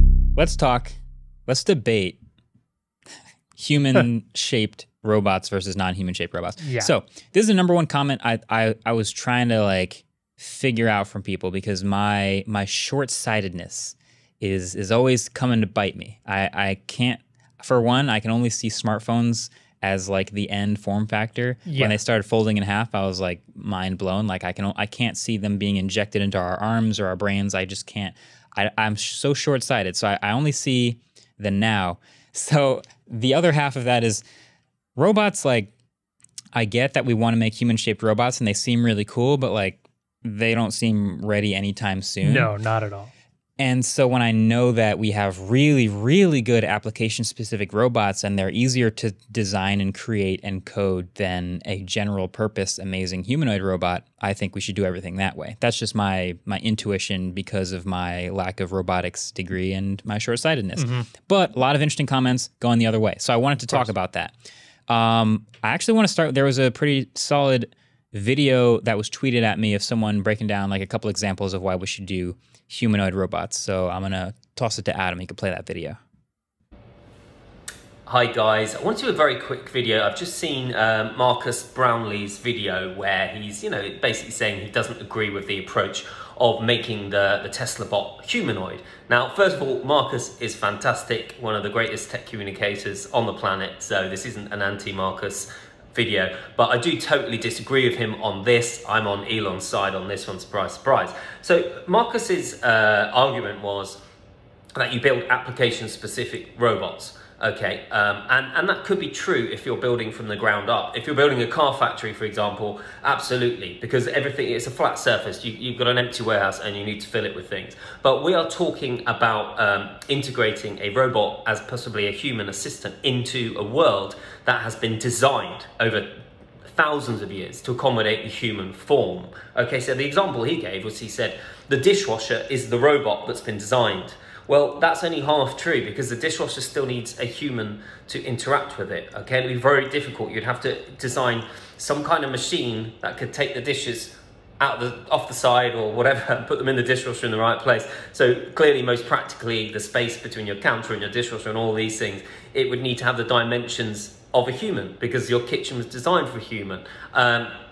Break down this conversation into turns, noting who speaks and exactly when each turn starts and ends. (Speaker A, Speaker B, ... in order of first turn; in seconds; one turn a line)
Speaker A: 0.3-0.9
Speaker A: 1.5-2.2
Speaker A: 3.5-34.2
Speaker B: 6.6-6.9
Speaker B: 21.7-22.0
Speaker A: 35.0-35.7
Speaker A: 36.5-42.5
Speaker B: 42.2-43.1
Speaker A: 43.6-64.3
Speaker B: 60.8-61.1
Speaker A: 64.9-76.0
Speaker C: 78.1-104.0
Speaker C: 104.7-126.1
Speaker C: 126.6-157.5